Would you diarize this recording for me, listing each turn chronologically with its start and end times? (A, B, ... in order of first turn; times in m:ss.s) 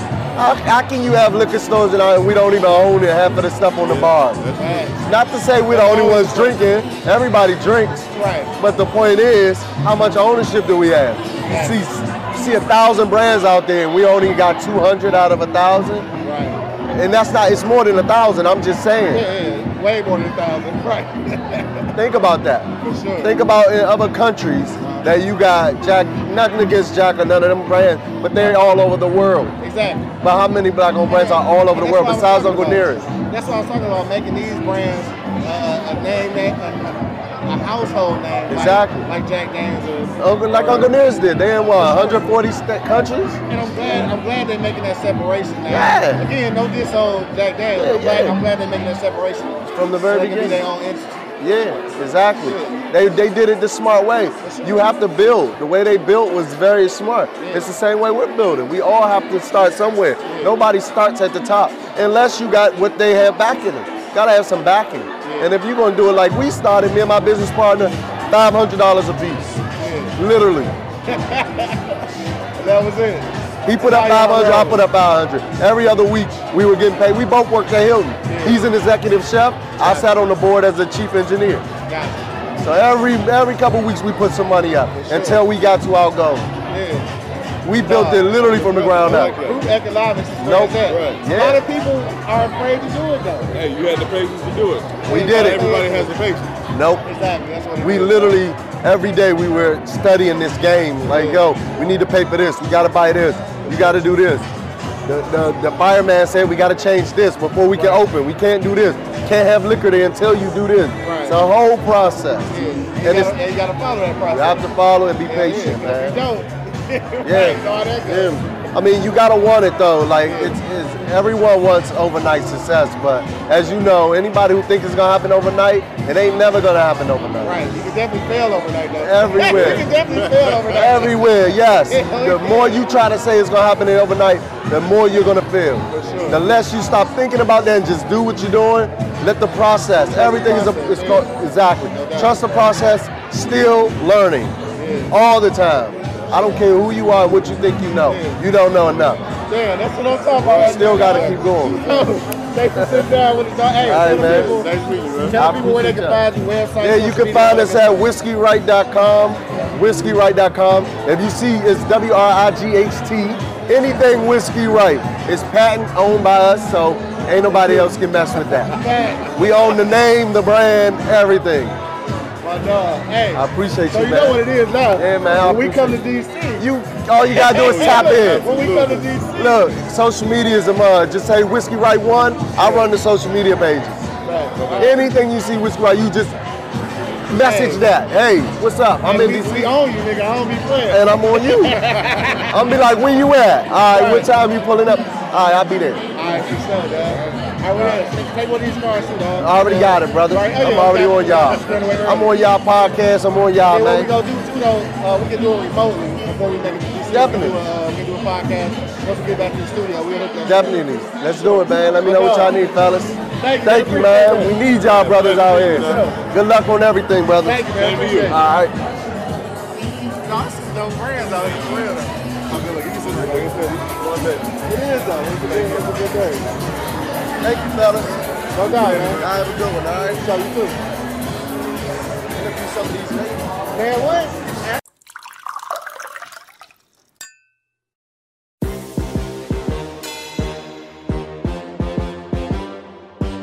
0:00.3-0:04.4 A
0:03.8-0:04.9 B
0:04.6-0:05.0 C
0:05.0-0:16.1 A
0:05.7-0:06.6 C
0:08.1-0:08.6 C
0:11.4-0:11.8 C
0:16.2-0:16.6 C
0:16.9-0:19.3 A
0:19.0-0:21.9 C
0:22.0-0:29.6 A
0:22.8-0:23.4 C
0:24.8-0:25.1 C
0:28.4-0:28.7 C
0:29.6-0:30.1 C
0:30.2-0:33.1 A
0:31.1-0:41.0 C
0:38.5-0:39.1 A
0:40.2-0:43.4 A
0:41.8-0:42.3 C
0:43.5-0:51.8 C
0:45.7-0:46.3 A
0:47.8-0:48.4 A
0:49.7-0:50.6 A
0:51.4-1:09.6 A
0:52.4-0:52.9 C
0:54.4-0:55.0 C
0:57.4-0:57.7 C
1:00.2-1:00.6 C
1:05.2-1:05.5 C
1:09.8-1:10.2 C
1:10.2-1:10.8 A
1:11.1-1:12.0 C
1:12.6-1:14.8 C
1:13.6-1:21.7 A
1:18.2-1:18.7 C
1:19.8-1:20.2 C
1:21.9-1:22.2 C
1:22.6-1:26.5 A
1:24.9-1:25.5 C
1:26.7-1:27.1 C
1:27.6-1:29.4 A
1:27.8-1:33.5 C
1:29.0-1:29.6 B
1:30.4-1:31.6 A
1:30.8-1:31.2 B
1:33.5-1:36.6 B
1:35.1-1:35.7 A
1:35.1-1:36.2 C
1:36.7-1:37.0 A
1:37.0-1:38.5 C
1:37.8-1:44.5 A
1:41.1-1:41.5 C
1:43.6-1:44.0 C
1:45.1-1:53.4 A
1:47.7-1:48.1 C
1:51.0-1:51.4 C
1:52.5-1:54.7 C
1:54.3-1:56.2 A
1:55.2-1:58.6 C
1:57.2-2:07.6 A
2:00.2-2:00.6 C
2:07.4-2:13.0 C
2:09.0-2:09.9 A
2:10.6-2:24.6 A
2:15.9-2:16.5 C
2:20.0-2:21.3 C
2:21.9-2:22.8 C
2:24.8-2:25.1 C
2:25.1-2:29.2 A
2:26.3-2:26.6 C
2:28.0-2:28.4 C
2:29.5-2:38.1 C
2:30.4-2:30.9 B
2:30.4-2:32.0 A
2:33.8-2:34.7 A
2:34.3-2:35.4 B
2:35.3-2:36.3 A
2:36.8-2:48.8 A
2:47.4-2:49.8 C
2:49.4-2:51.8 A
2:52.4-2:56.7 C
2:53.3-2:56.0 A
2:56.6-2:58.5 A
2:57.3-2:59.1 B
2:57.3-2:59.7 C
2:59.4-3:04.1 A
3:02.6-3:02.9 C
3:04.2-3:05.1 C
3:04.6-3:05.0 B
3:04.8-3:06.4 A
3:07.3-3:09.8 A
3:07.4-3:07.9 C
3:09.0-3:12.6 C
3:10.9-3:11.8 A
3:12.5-3:16.0 A
3:13.9-3:14.3 C
3:16.1-3:22.4 C
3:17.8-3:18.0 A
3:19.4-3:24.1 A
3:23.6-3:30.8 C
3:27.1-3:27.6 A
3:30.4-3:37.7 A
3:31.4-3:32.6 C
3:33.4-3:34.6 C
3:34.8-3:36.2 B
3:35.7-3:36.2 C
3:37.4-3:38.4 C
3:37.7-3:38.4 B
3:38.2-3:38.7 A
3:40.1-3:43.7 C
3:42.9-3:44.5 B
3:44.6-3:46.5 C
3:45.4-3:46.0 A
3:47.4-3:50.3 A
3:48.5-3:49.3 C
3:48.6-3:49.1 B
3:50.2-3:50.8 C
3:52.3-3:53.6 A
3:53.7-3:54.6 C